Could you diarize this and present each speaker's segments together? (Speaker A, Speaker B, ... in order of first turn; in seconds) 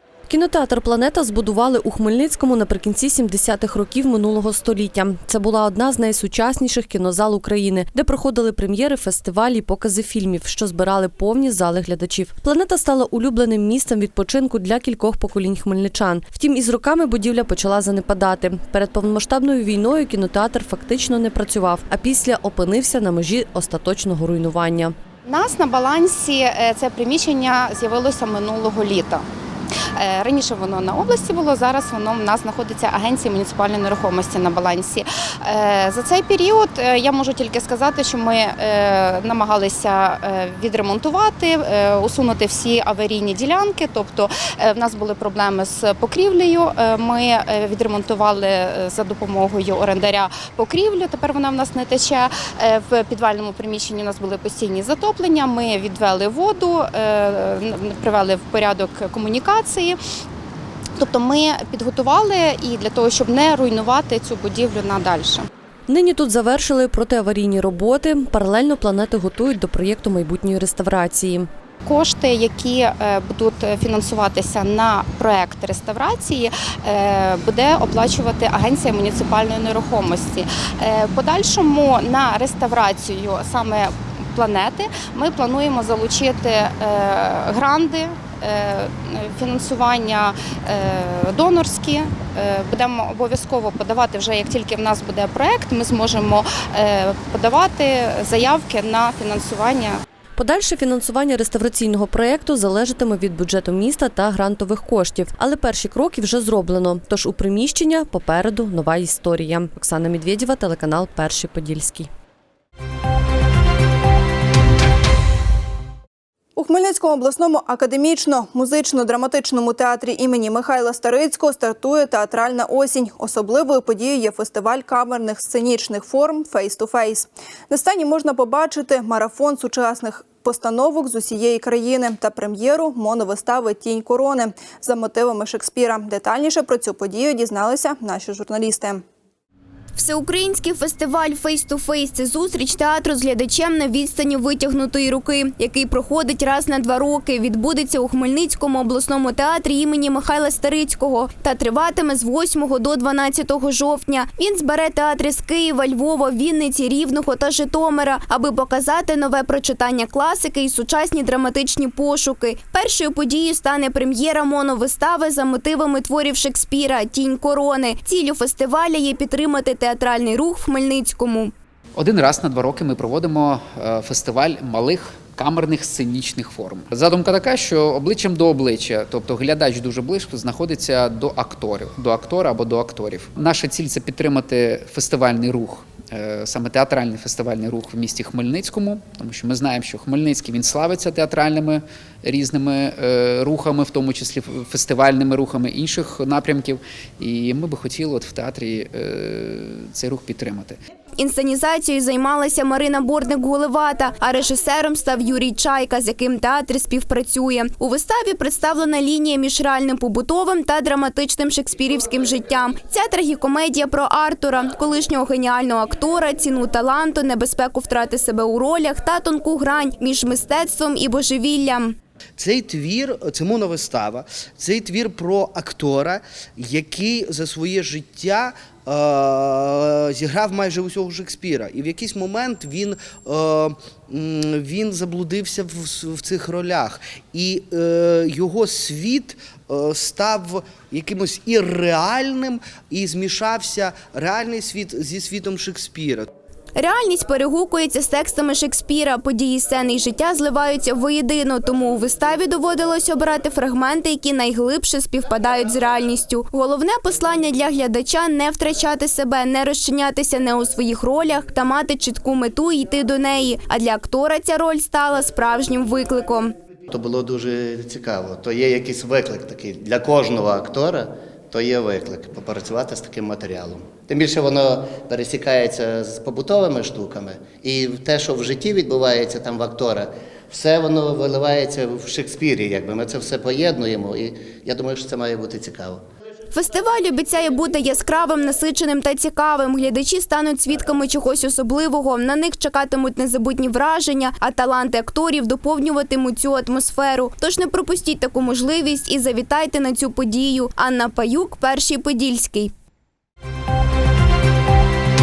Speaker A: 0.3-24.9, 65.9-71.5, 100.4-112.1
Speaker B: 25.2-29.3, 30.0-60.0, 61.0-65.5, 71.8-100.0, 222.4-246.3
Speaker C: 116.6-139.0
Speaker D: 140.0-171.5, 201.2-222.0, 246.8-266.5, 286.5-302.7
Speaker E: 172.0-200.8
Speaker F: 266.9-286.0